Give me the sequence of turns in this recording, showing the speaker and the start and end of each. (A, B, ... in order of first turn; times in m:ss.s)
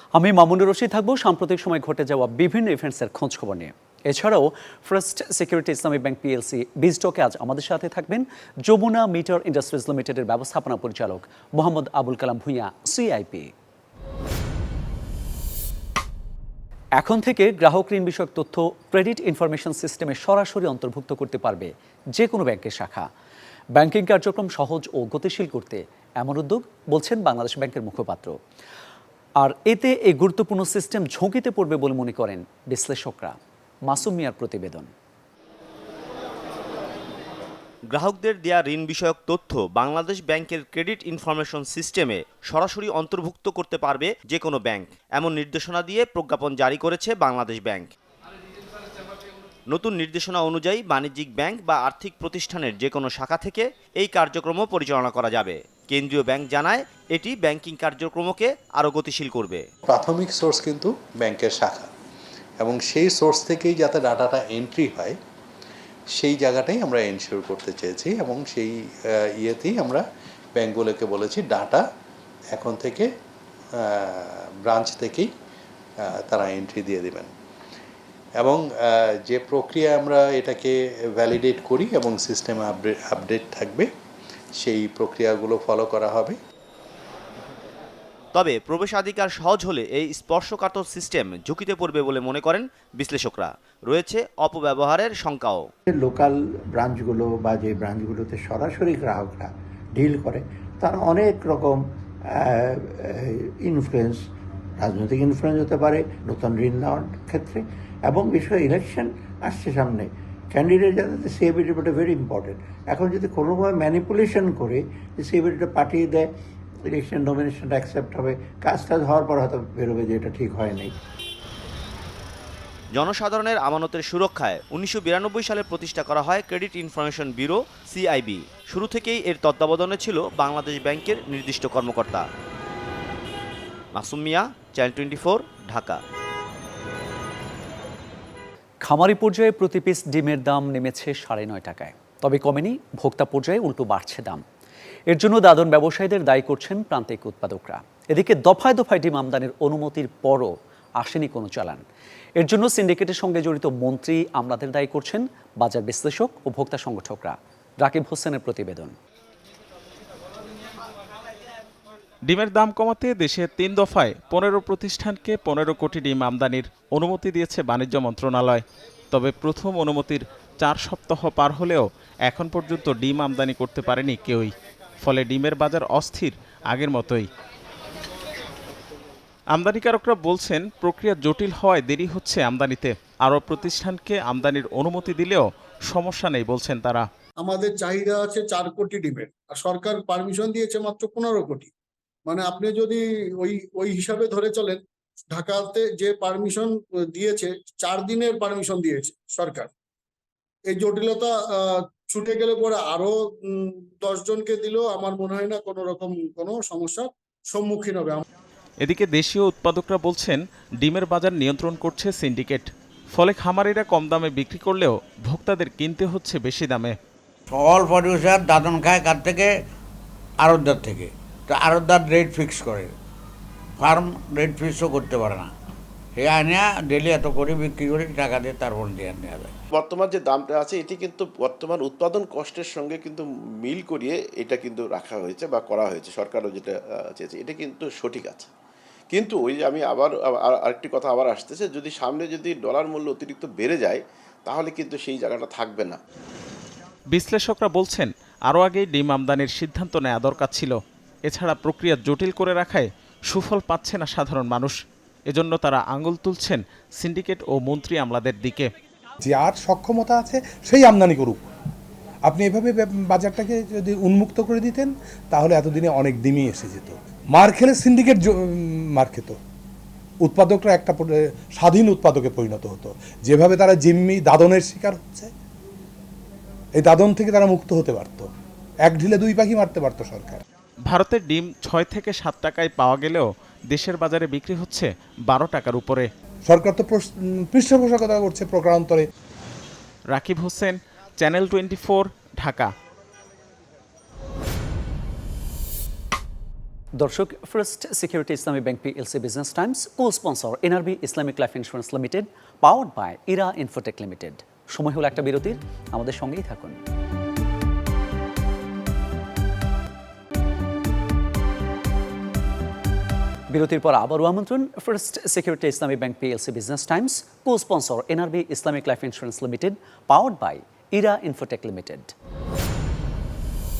0:00.2-0:13.5 A
0:17.0-0:23.1 A
0:23.8-0:28.3 A
0:29.4-0:33.4 A
0:33.9-0:34.9 A
0:37.9-0:47.9 B
0:49.7-0:59.6 B
0:59.9-1:01.9 C
1:02.6-1:05.1 C
1:06.2-1:08.7 C
1:09.4-1:10.0 C
1:10.6-1:11.8 C
1:12.5-1:13.1 C
1:14.0-1:15.3 C
1:16.3-1:17.3 C
1:19.3-1:23.8 C
1:24.6-1:26.3 C
1:28.3-1:35.7 B
1:35.9-1:41.8 D
1:43.6-1:44.2 D
1:44.8-1:56.2 D
1:56.9-2:00.9 D
2:02.9-2:12.2 B
2:13.9-2:16.0 B
2:18.8-2:24.4 A
2:25.1-2:31.8 A
2:32.4-2:39.0 A
2:42.2-2:57.3 E
2:59.5-3:07.1 E
3:07.4-3:11.7 F
3:12.3-3:19.7 F
3:20.6-3:28.2 F
3:28.8-3:36.9 E
3:37.5-3:39.5 G
3:40.5-3:42.9 G
3:43.8-3:45.4 G
3:46.2-3:49.5 G
3:49.7-3:58.5 H
3:59.1-4:06.0 H
4:07.1-4:14.7 E
4:15.3-4:18.7 E
4:19.2-4:21.4 I
4:22.3-4:29.4 I
4:30.2-4:35.3 I
4:36.8-4:38.3 I
4:38.9-4:40.4 I
4:40.8-4:46.1 E
4:46.5-4:49.1 I
4:50.1-4:52.7 E
4:57.0-5:06.8 A
5:13.5-5:22.1 A